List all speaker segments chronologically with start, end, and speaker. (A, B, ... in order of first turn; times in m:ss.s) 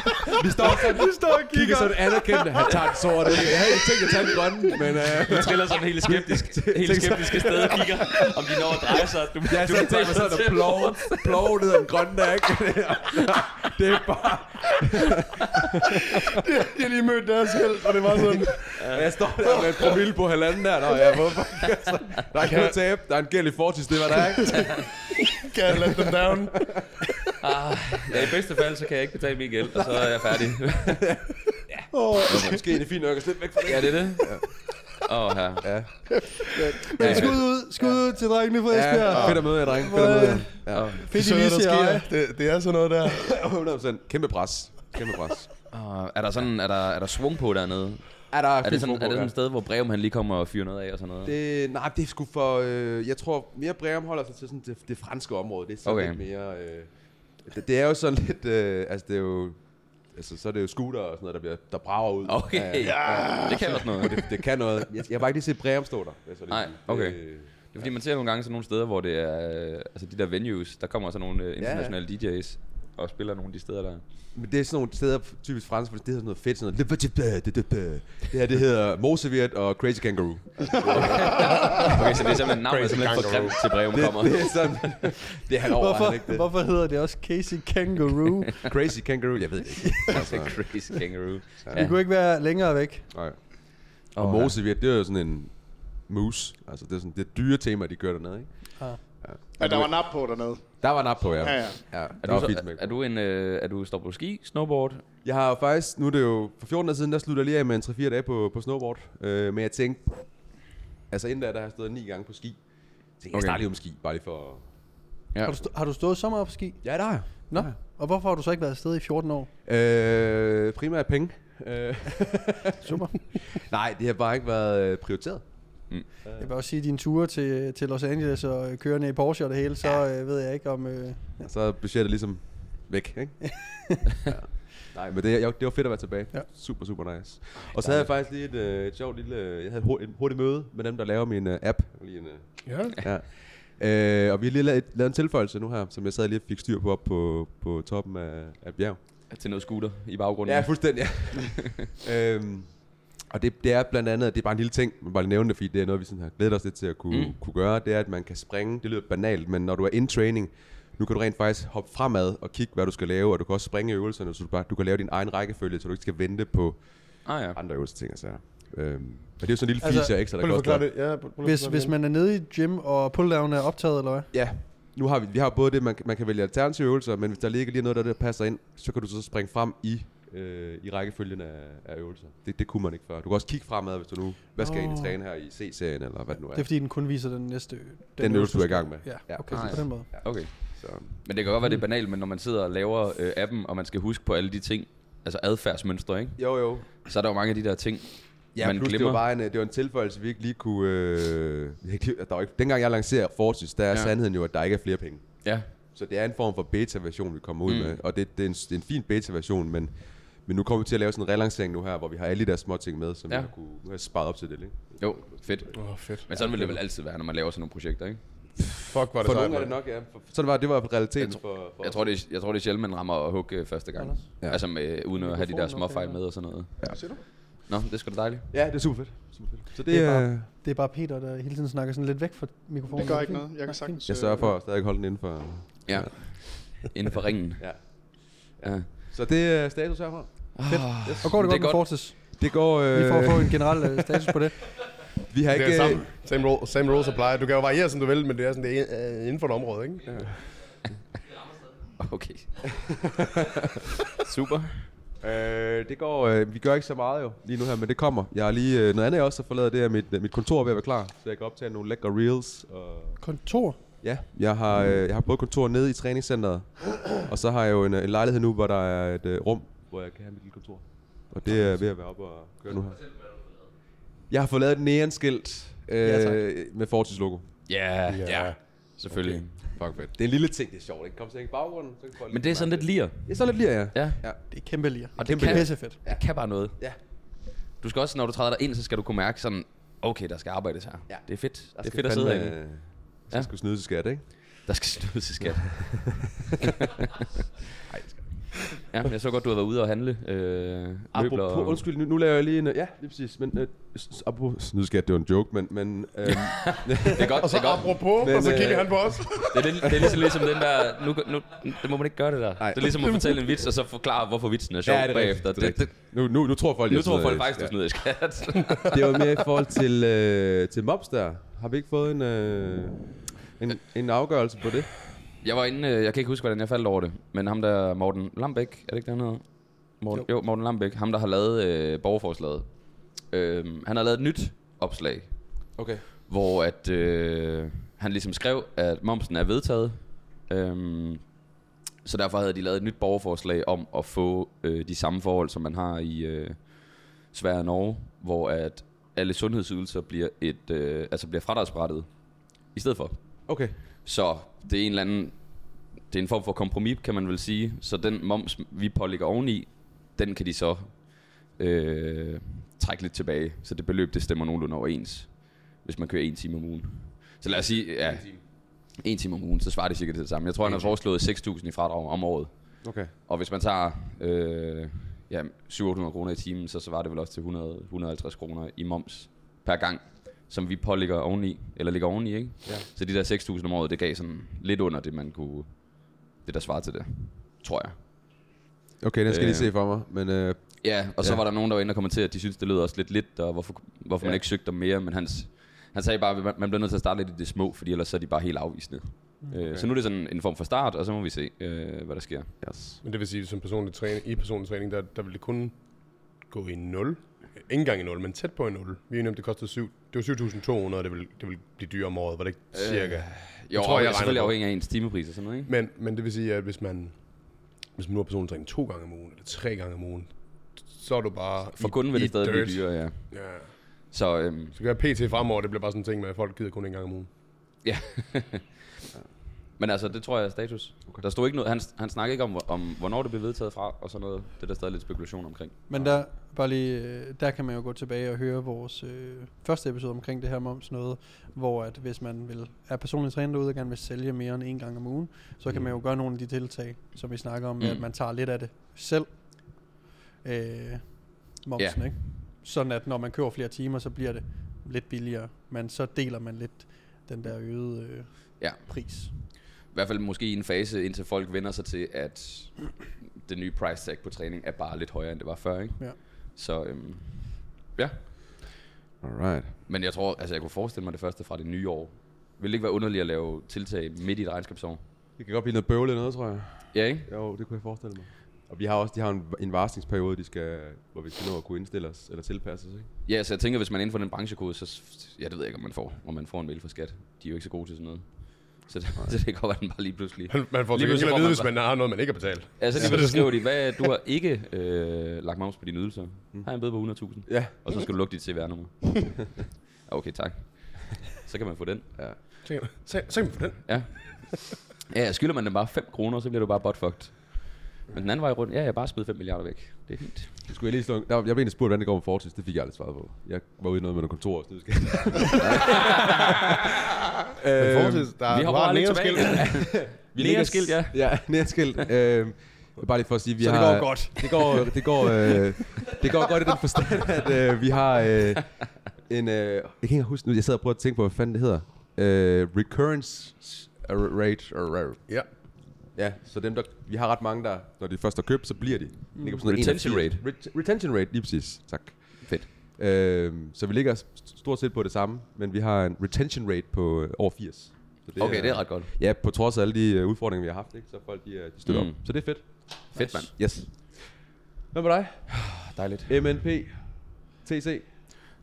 0:00.3-0:07.9 A
0:00.6-0:02.7 B
0:03.2-0:03.8 C
0:04.9-0:11.5 C
0:07.2-0:07.7 D
0:09.4-0:16.4 A
0:16.1-0:18.9 D
0:18.8-0:19.0 C
0:18.8-0:24.9 A
0:22.4-0:22.8 D
0:25.3-0:26.8 D
0:25.7-0:26.8 A
0:27.4-0:31.0 C
0:28.1-0:28.3 A
0:30.9-0:34.4 A
0:31.9-0:32.6 B
0:33.6-0:34.4 C
0:35.0-0:35.7 C
0:35.6-0:36.1 A
0:36.9-0:42.1 B
0:37.0-0:37.5 A
0:37.0-0:37.4 C
0:38.7-0:40.9 A
0:40.7-0:41.0 C
0:41.1-0:43.3 D
0:43.1-0:45.5 A
0:45.7-0:51.3 C
0:48.3-0:49.3 A
0:51.2-1:07.9 A
0:55.8-0:56.2 C
1:02.3-1:04.4 C
1:03.1-1:03.4 E
1:06.5-1:14.0 C
1:11.6-1:12.0 A
1:14.3-1:22.0 A
1:20.8-1:24.7 C
1:22.6-1:23.6 D
1:23.9-1:26.5 A
1:25.7-1:28.7 B
1:28.6-1:30.6 A
1:30.1-1:32.0 C
1:31.7-1:33.1 B
1:33.1-1:39.9 A
1:34.1-1:34.6 C
1:39.6-1:41.8 E
1:40.8-1:42.9 A
1:42.2-1:45.0 C
1:45.2-1:52.6 A
1:53.2-1:54.7 A
1:53.3-1:53.6 C
1:55.4-1:59.5 B
1:56.8-1:57.8 A
1:59.6-2:06.5 A
2:02.8-2:03.2 B
2:06.4-2:11.4 B
2:11.4-2:29.0 A
2:22.6-2:23.0 D
2:29.3-2:31.8 C
2:30.4-2:50.9 A
2:37.1-2:37.4 C
2:47.2-2:47.6 C
2:49.8-2:50.1 B
2:50.4-2:51.9 D
2:51.4-2:54.3 B
2:54.3-3:06.7 A
3:04.6-3:05.2 B
3:06.5-3:10.1 B
3:08.2-3:11.1 A
3:09.5-3:19.2 C
3:16.4-3:16.9 A
3:18.5-3:35.6 A
3:27.6-3:28.0 C
3:35.0-3:38.6 C
3:35.7-3:36.7 D
3:38.8-3:39.7 D
3:39.2-3:42.1 A
3:41.2-3:48.5 C
3:44.0-3:44.5 B
3:45.1-3:46.2 B
3:46.8-3:47.1 A
3:46.9-3:47.2 E
3:48.5-3:50.5 A
3:49.8-3:54.0 B
3:52.9-3:54.6 E
3:54.0-3:56.7 A
3:55.8-3:58.9 C
3:57.6-4:01.4 A
4:00.5-4:01.9 C
4:00.7-4:04.7 B
4:02.4-4:04.0 A
4:05.3-4:06.1 A
4:05.5-4:10.1 D
4:10.1-4:10.4 A
4:12.0-4:12.7 C
4:12.8-4:13.7 A
4:14.1-4:14.9 C
4:15.2-4:23.2 A
4:23.2-4:23.8 B
4:24.0-4:33.1 A
4:34.3-4:37.7 A
4:36.0-4:36.4 B
4:37.7-4:39.7 C
4:38.1-4:38.6 D
4:39.1-4:44.4 A
4:42.3-4:44.4 C
4:44.5-4:46.0 B
4:45.2-4:46.2 A
4:45.2-4:46.8 C
4:47.4-4:53.5 C
4:51.1-4:54.5 A
4:54.6-4:56.7 C
4:55.8-4:56.3 A
4:57.9-4:58.5 A
4:58.8-5:01.8 C
5:01.1-5:07.4 A
5:06.2-5:08.4 C
5:07.4-5:10.1 D
5:08.1-5:10.2 A
5:09.3-5:16.0 C
5:12.6-5:12.9 A
5:14.8-5:17.7 A
5:16.9-5:19.2 C
5:18.9-5:25.0 A
5:25.4-5:41.4 C
5:35.8-5:36.0 A
5:42.0-6:28.0 C
5:53.5-5:53.7 A
6:07.5-6:08.4 A
6:10.6-6:10.9 A
6:12.8-6:13.1 A
6:29.0-6:31.4 A
6:29.3-6:29.7 C
6:30.8-6:42.6 C
6:42.6-6:43.0 A
6:43.0-6:54.6 D
6:52.7-6:55.7 C
6:55.7-7:03.7 D
7:01.8-7:04.8 C
7:04.7-7:07.3 D
7:07.8-7:08.7 C
7:09.8-7:15.8 C
7:15.9-7:39.3 B
7:15.9-7:16.2 A
7:27.8-7:28.0 C
7:31.8-7:32.2 C
7:38.6-7:48.2 C
7:49.2-7:49.8 A
7:49.9-7:55.0 C
7:55.4-8:03.1 A
7:56.9-7:57.3 C
8:03.2-8:11.8 C
8:10.5-8:14.0 D
8:12.8-8:22.1 C
8:13.0-8:13.3 A
8:16.5-8:16.8 A
8:17.4-8:17.7 A
8:22.6-8:24.4 D
8:23.8-8:30.6 C
8:30.6-8:36.8 A
8:37.6-8:38.3 A
8:37.8-8:39.7 D
8:38.5-8:41.8 C
8:39.5-9:14.3 A
8:43.6-8:45.5 B
8:59.3-8:59.7 B
8:59.7-9:00.4 C
9:08.4-9:09.1 C
9:11.8-9:13.5 C
9:13.1-9:13.5 B
9:14.9-9:18.1 A
9:15.5-9:16.3 C